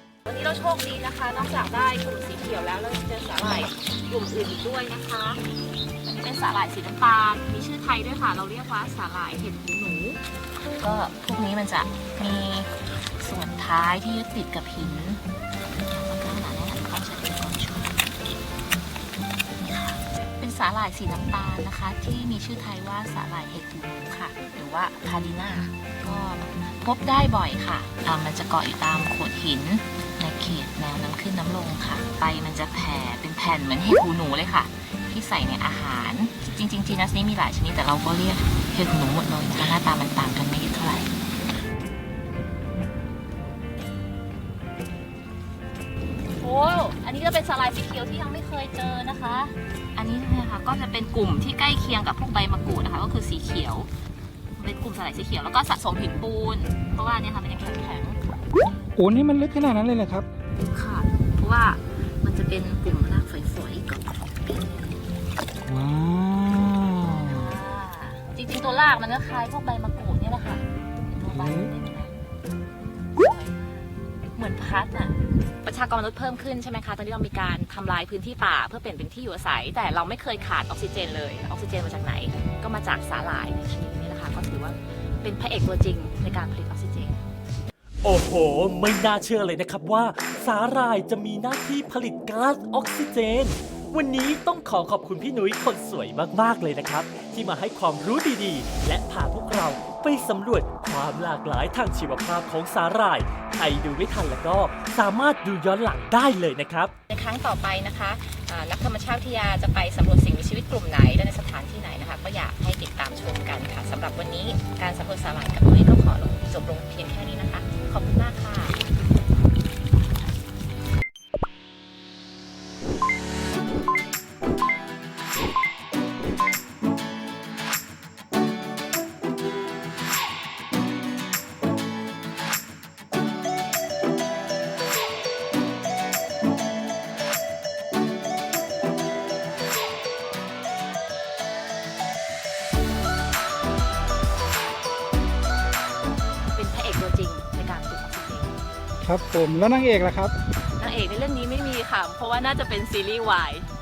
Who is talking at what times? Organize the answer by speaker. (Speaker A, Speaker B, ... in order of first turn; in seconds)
Speaker A: 0.3-5.4, 6.0-10.2, 10.8-15.3, 15.8-18.2, 19.6-41.1, 46.4-53.9, 54.6-58.2, 60.7-65.1, 66.8-72.2, 73.2-87.2, 107.1-118.8, 146.5-148.6, 150.8-153.7
Speaker B: 59.0-60.3, 149.0-150.3
Speaker C: 88.0-106.9